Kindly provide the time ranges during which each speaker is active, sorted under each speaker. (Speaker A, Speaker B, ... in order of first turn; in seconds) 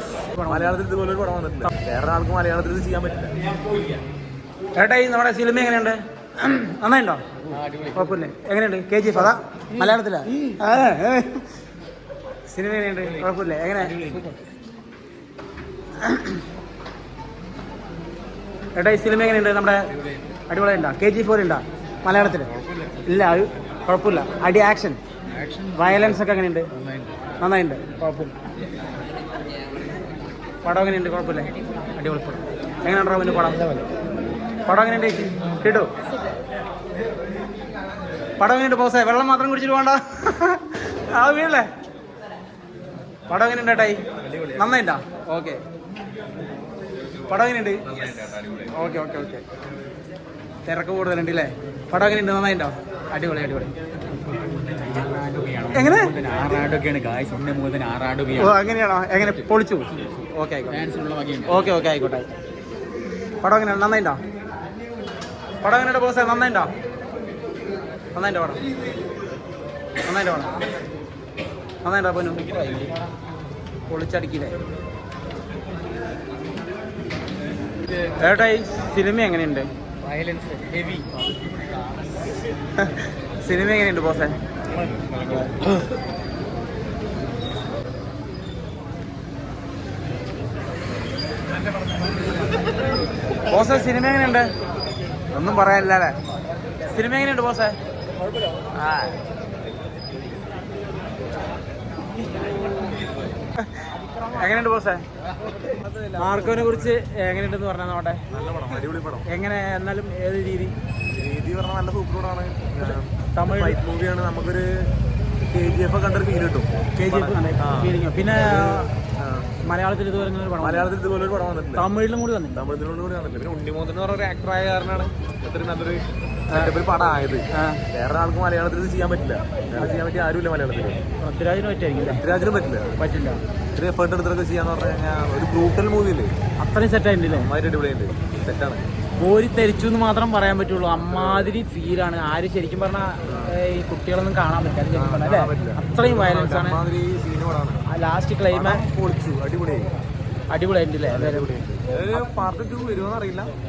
Speaker A: 0.3-0.8, 4.7-7.2, 7.9-11.5, 12.5-14.4, 16.0-16.4, 18.8-19.9, 20.5-22.5, 23.0-25.0, 25.7-26.7, 27.4-28.3, 30.6-33.9, 34.6-35.9, 38.4-41.7, 43.3-44.0, 44.5-45.6, 47.3-48.0, 48.7-49.4, 50.6-53.7, 55.7-56.1, 58.3-60.8, 61.5-62.3, 63.4-64.2, 65.6-66.7, 68.1-68.6, 70.0-70.5, 71.8-72.9, 73.9-74.6, 78.1-79.7, 82.8-84.4, 93.5-94.5, 95.3-96.1, 96.8-97.8, 98.7-99.2, 103.6-105.1, 106.2-108.2, 109.3-110.8, 112.8-113.8, 117.0-118.9, 119.6-120.9, 121.7-122.6, 127.5-127.8, 131.2-132.3, 133.0-133.4, 136.6-137.5, 139.2-146.8, 147.9-148.9, 150.5-151.5
Speaker B: 0.5-3.3, 22.3-23.1, 44.3-44.6, 48.0-48.7, 105.6-107.0, 108.3-109.2, 111.0-114.9, 115.5-119.5, 120.6-121.8, 122.5-131.0, 132.0-132.9, 133.7-136.3, 137.3-138.8, 140.9-141.6, 143.3-143.5, 144.9-147.8, 148.5-149.9, 151.1-153.5
Speaker C: 7.4-8.2, 9.7-10.6, 13.9-14.4, 25.3-26.2, 26.8-27.1, 54.2-58.6, 60.7-61.7, 80.0-81.1, 84.8-85.7